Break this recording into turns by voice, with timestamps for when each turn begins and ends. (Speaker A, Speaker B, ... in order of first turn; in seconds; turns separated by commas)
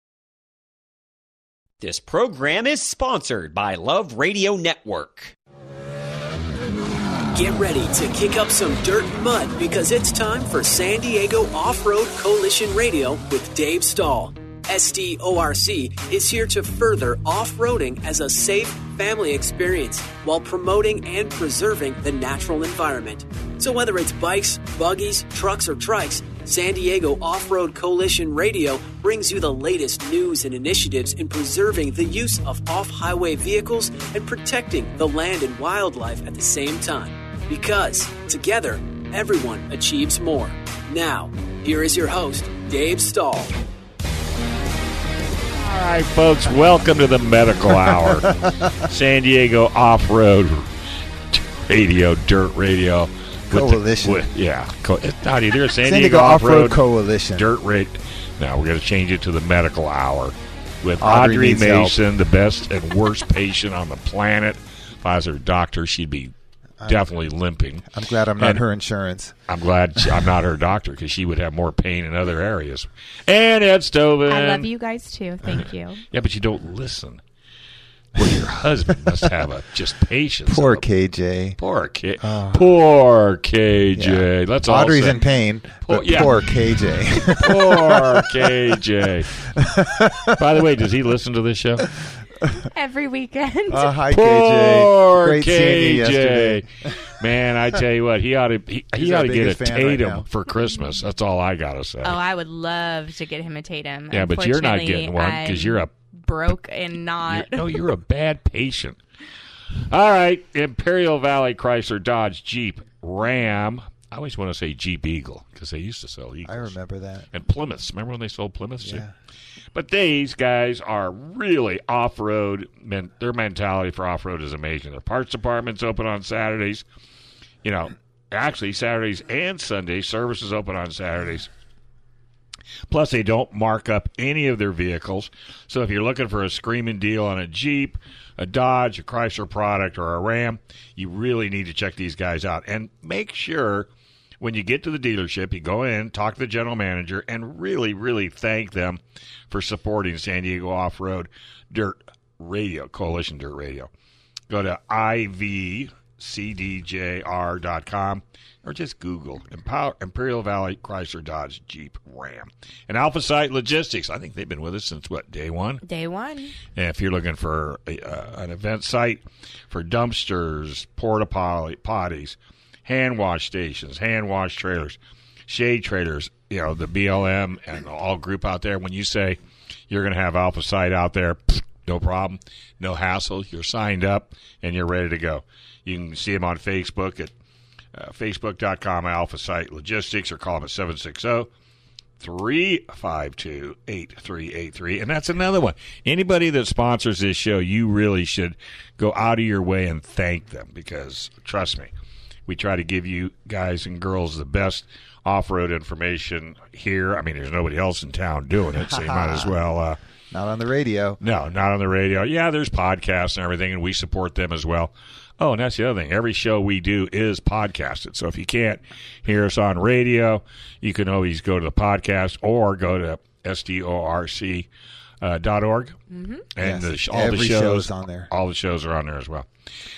Speaker A: 1.8-5.3, Speaker B: 7.3-43.5, Speaker C: 45.5-50.7, Speaker D: 47.8-48.8, Speaker C: 51.3-66.3, Speaker D: 53.5-54.3, Speaker D: 55.8-57.5, Speaker D: 61.0-62.0, Speaker D: 66.8-67.0, Speaker C: 66.8-67.8, Speaker D: 67.9-69.3, Speaker C: 69.5-74.7, Speaker E: 74.3-76.0, Speaker C: 76.1-77.2, Speaker C: 78.2-80.9, Speaker D: 80.5-81.6, Speaker C: 81.6-85.2, Speaker D: 82.2-82.6, Speaker D: 84.0-88.5, Speaker C: 85.8-86.4, Speaker C: 87.3-89.3, Speaker D: 89.4-90.4, Speaker C: 90.3-91.9, Speaker E: 92.6-93.9, Speaker D: 93.7-96.6, Speaker C: 94.1-102.2, Speaker D: 98.9-100.2, Speaker E: 102.0-107.6, Speaker C: 104.1-105.9, Speaker C: 107.3-109.0, Speaker C: 109.9-116.7, Speaker D: 116.4-117.3, Speaker C: 117.3-119.0, Speaker D: 118.8-119.1, Speaker C: 119.7-126.8, Speaker C: 127.6-131.5, Speaker C: 132.9-143.9, Speaker C: 144.4-153.9, Speaker C: 154.5-165.8, Speaker E: 165.8-166.6, Speaker C: 166.7-175.0, Speaker C: 175.5-179.4, Speaker C: 179.9-187.3, Speaker C: 187.9-191.5, Speaker C: 192.2-201.9, Speaker C: 202.5-210.0, Speaker D: 208.9-209.5, Speaker D: 210.3-211.2, Speaker C: 211.2-224.7, Speaker C: 225.2-226.0, Speaker E: 226.1-226.4, Speaker C: 226.5-229.5, Speaker D: 226.6-228.3